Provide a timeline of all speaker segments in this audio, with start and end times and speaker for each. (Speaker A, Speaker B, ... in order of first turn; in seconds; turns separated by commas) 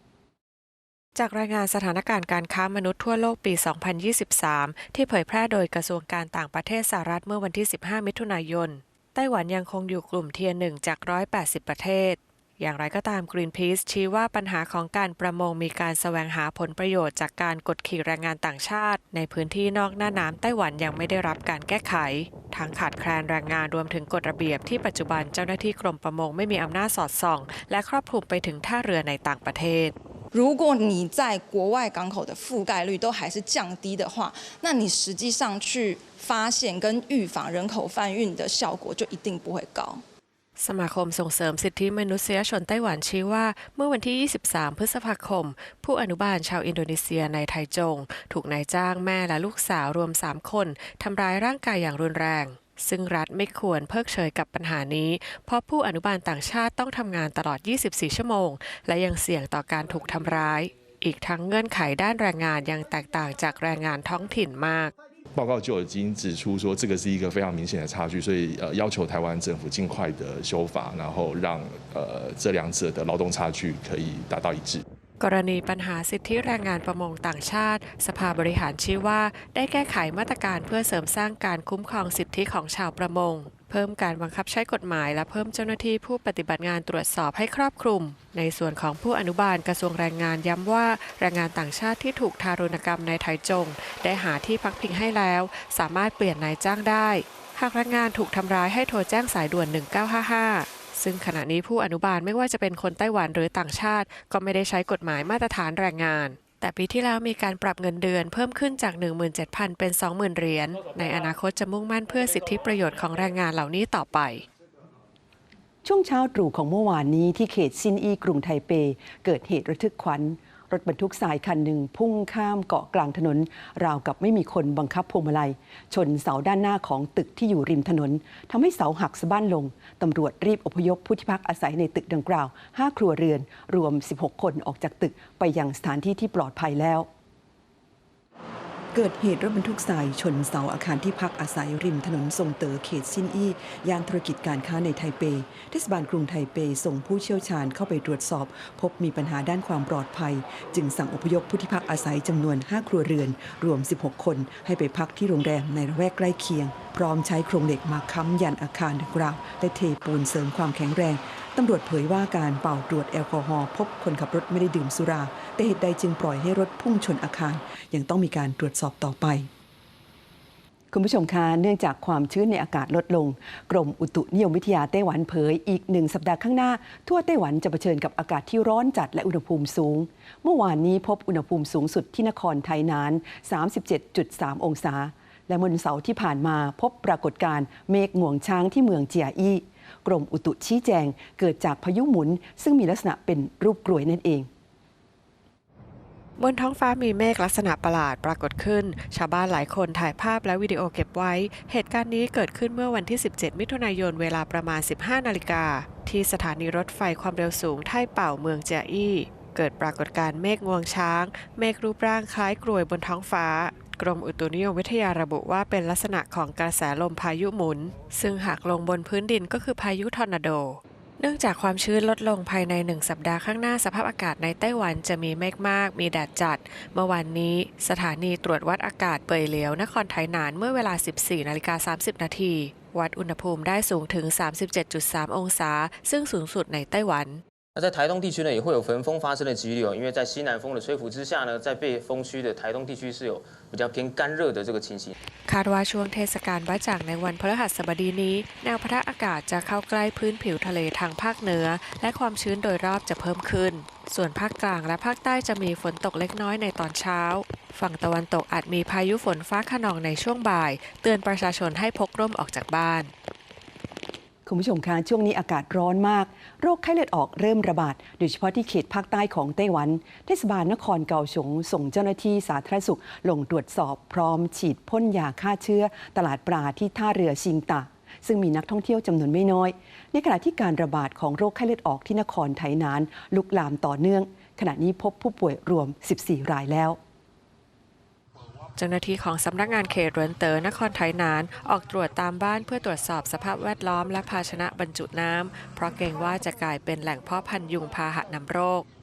Speaker A: 1.1-29.9, Speaker B: 30.3-40.0, Speaker A: 40.6-64.9, Speaker C: 65.3-74.8, Speaker A: 75.2-114.4, Speaker D: 115.8-137.1, Speaker D: 138.9-169.5, Speaker D: 170.9-194.5, Speaker A: 196.4-237.4, Speaker E: 237.8-245.2, Speaker A: 245.5-263.1, Speaker D: 264.5-287.0, Speaker A: 288.8-298.9